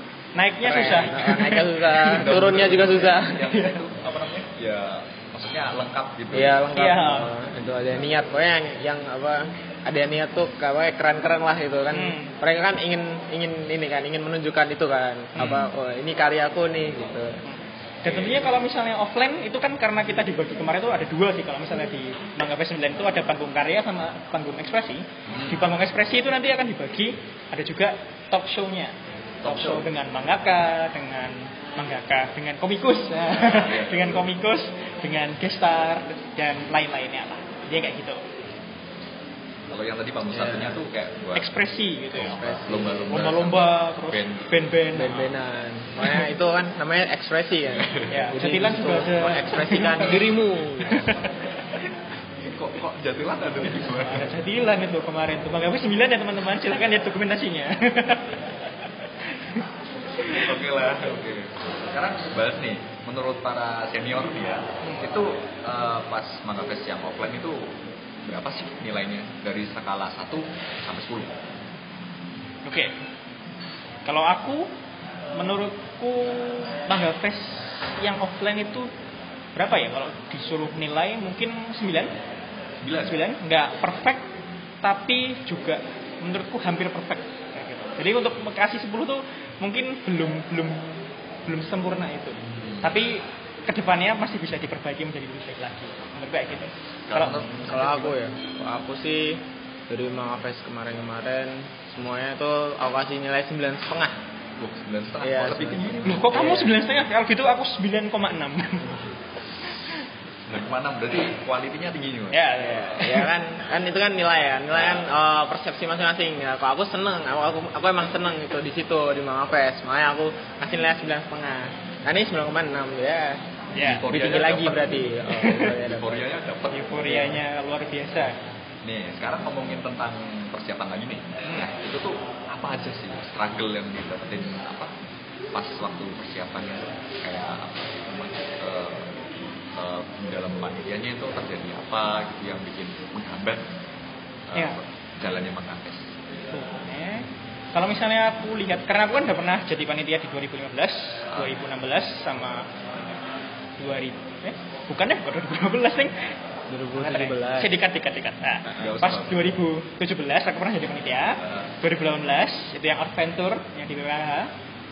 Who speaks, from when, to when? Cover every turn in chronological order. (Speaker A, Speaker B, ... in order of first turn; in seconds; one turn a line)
Speaker A: 0.4-2.4
Speaker B: 0.6-3.5
Speaker C: 2.0-6.6
Speaker A: 3.5-3.8
Speaker B: 6.3-17.4
Speaker A: 6.8-7.3
Speaker A: 11.9-12.3
Speaker C: 15.4-15.7
Speaker A: 17.5-38.2
Speaker C: 18.1-18.4
Speaker C: 25.3-25.6
Speaker C: 29.4-29.9
Speaker C: 33.3-34.3
Speaker C: 39.7-41.5
Speaker B: 40.3-40.8
Speaker A: 41.4-42.5
Speaker C: 42.1-44.5
Speaker B: 42.2-43.1
Speaker A: 43.1-45.3
Speaker B: 44.9-51.1
Speaker C: 47.8-48.1
Speaker A: 48.1-50.3
Speaker A: 50.9-51.3
Speaker C: 52.4-54.3
Speaker A: 53.7-58.4
Speaker A: 59.4-59.6
Speaker A: 60.2-60.5
Speaker C: 60.3-67.7
Speaker C: 68.2-71.4
Speaker A: 72.7-72.9
Speaker A: 74.0-74.7
Speaker A: 75.3-78.9
Speaker A: 79.6-82.1
Speaker C: 82.8-83.2
Speaker A: 83.1-84.3
Speaker A: 84.8-97.5
Speaker C: 92.6-92.9
Speaker C: 97.1-98.2
Speaker B: 97.6-104.2
Speaker C: 104.6-106.7
Speaker B: 105.2-106.7
Speaker A: 106.0-109.0
Speaker C: 110.5-112.6
Speaker A: 112.3-113.3
Speaker B: 112.6-123.4
Speaker A: 123.7-124.0
Speaker C: 123.8-125.0
Speaker B: 124.1-126.3
Speaker A: 125.4-125.6
Speaker C: 125.8-127.2
Speaker A: 126.7-128.4
Speaker B: 127.1-127.3
Speaker C: 128.8-134.9
Speaker A: 131.4-131.7
Speaker C: 135.5-143.7
Speaker C: 144.5-146.2
Speaker A: 146.5-153.2
Speaker C: 151.3-151.6
Speaker A: 153.8-156.2
Speaker B: 156.7-157.8
Speaker A: 156.9-164.5
Speaker B: 158.7-158.9
Speaker C: 158.8-159.5
Speaker C: 161.4-161.7